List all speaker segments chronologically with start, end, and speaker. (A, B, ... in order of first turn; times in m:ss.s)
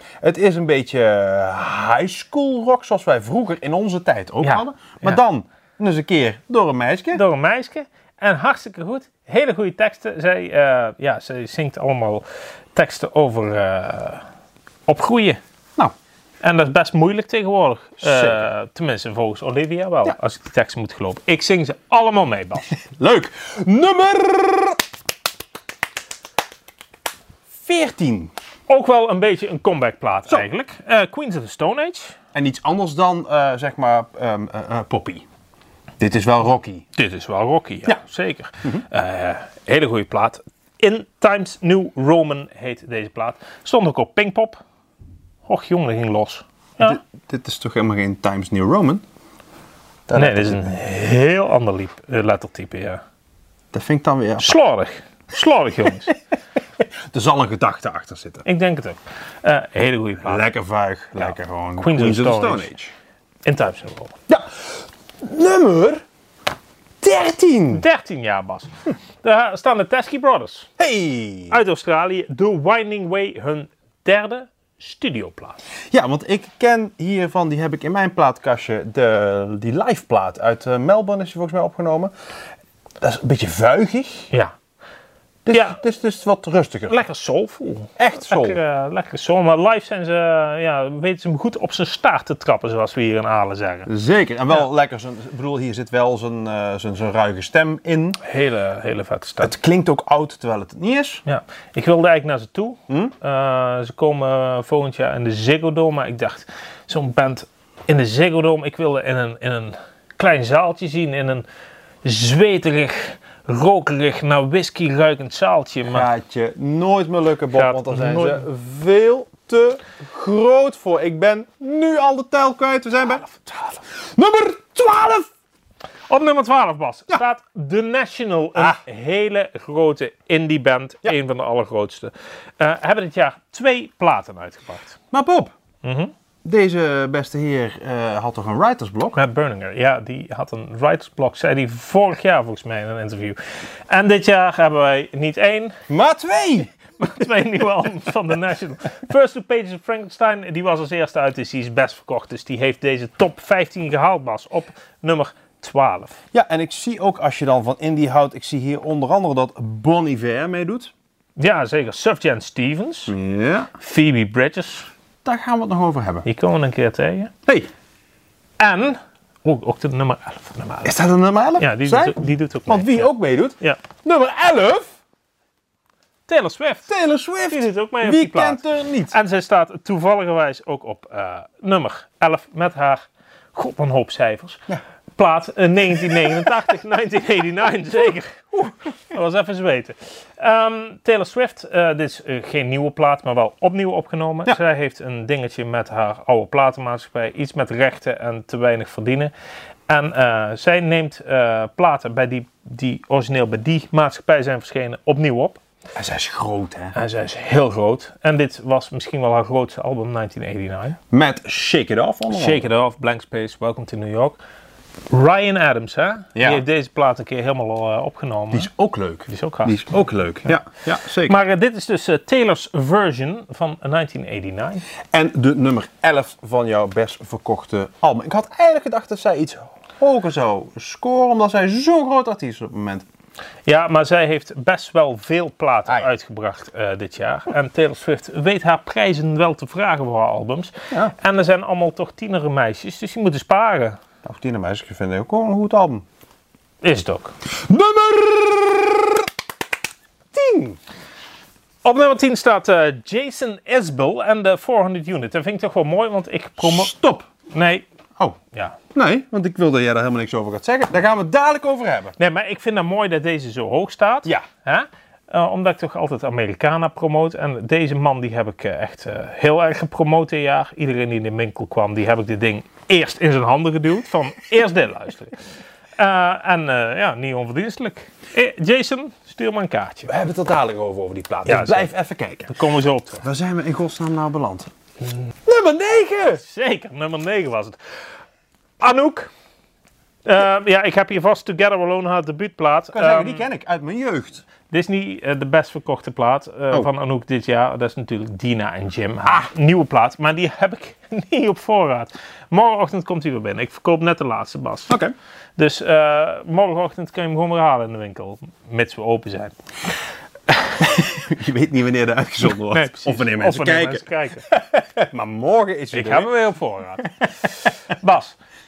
0:00.2-0:07.2 A
0:04.4-0:05.2 B
0:07.1-0:14.2 B
0:14.9-0:15.4 B
0:16.4-0:22.7 B
0:18.0-0:18.4 A
0:22.9-0:24.8 A
0:27.6-0:28.3 A
0:28.7-0:32.2 B
0:32.3-0:35.2 A
0:36.0-0:36.8 A
0:36.9-0:44.6 B
0:45.4-0:47.0 B
0:46.8-0:49.0 A
0:50.1-0:50.8 A
0:50.1-0:53.0 B
0:53.7-0:54.6 A
0:54.4-0:56.1 B
0:56.8-0:58.4 A
0:58.4-1:00.5 B
1:00.2-1:02.9 A
1:01.2-1:02.7 B
1:03.4-1:04.1 B
1:04.3-1:06.0 A
1:07.0-1:07.8 A
1:07.7-1:10.7 B
1:10.8-1:11.6 A
1:11.5-1:15.6 B
1:15.9-1:22.1 A
1:23.0-1:24.3 A
1:25.4-1:26.9 A
1:25.5-1:25.8 B
1:26.9-1:33.9 B
1:28.0-1:28.6 A
1:33.9-1:38.2 A
1:38.2-1:39.5 B
1:39.4-1:41.2 A
1:41.2-1:51.4 B
1:42.9-1:43.1 A
1:52.0-1:56.1 B
1:55.9-2:03.2 A
1:57.5-1:58.4 B
2:03.2-2:03.8 B
2:03.9-2:05.3 A
2:06.1-2:15.0 B
2:08.6-2:08.8 A
2:15.1-2:15.5 A
2:15.8-2:16.1 B
2:16.4-2:19.2 A
2:19.1-2:23.4 B
2:23.9-2:25.8 B
2:25.9-2:26.7 A
2:27.0-2:36.2 B
2:36.3-2:40.9 A
2:41.4-2:43.1 B
2:43.1-2:43.7 A
2:43.7-2:44.9 B
2:45.2-2:46.3 A
2:46.2-2:47.3 B
2:48.6-2:50.9 B
2:50.8-2:54.9 A
2:51.6-2:53.8 B
2:56.3-2:56.9 B
2:56.9-2:59.2 A
2:57.5-3:04.6 B
3:05.2-3:19.3 B
3:19.9-3:25.6 B
3:25.9-3:27.0 A
3:26.9-3:31.0 B
3:31.1-3:32.6 A
3:32.3-3:34.4 B
3:35.1-3:38.7 B
3:36.3-3:36.6 A
3:38.5-3:41.4 A
3:39.3-3:39.8 B
3:41.2-3:44.8 B
3:45.1-3:53.0 A
3:53.6-4:04.0 B
4:04.2-4:06.0 A
4:06.8-4:07.3 B
4:07.6-4:09.3 A
4:10.3-4:10.8 A
4:11.8-4:16.9 B
4:16.6-4:17.3 A
4:17.5-4:17.8 B
4:18.5-4:18.8 B
4:18.9-4:22.1 A
4:22.2-4:35.4 B
4:36.0-4:40.1 B
4:40.0-4:42.6 A
4:41.4-4:41.9 B
4:42.5-4:43.2 B
4:43.2-4:44.7 A
4:45.4-4:46.4 A
4:46.4-4:47.8 B
4:48.8-4:49.3 B
4:50.2-4:53.4 B
4:52.9-4:54.4 A
4:54.7-5:05.0 B
5:05.6-5:09.6 B
5:10.8-5:16.3 A
5:12.7-5:14.5 B
5:15.9-5:18.4 B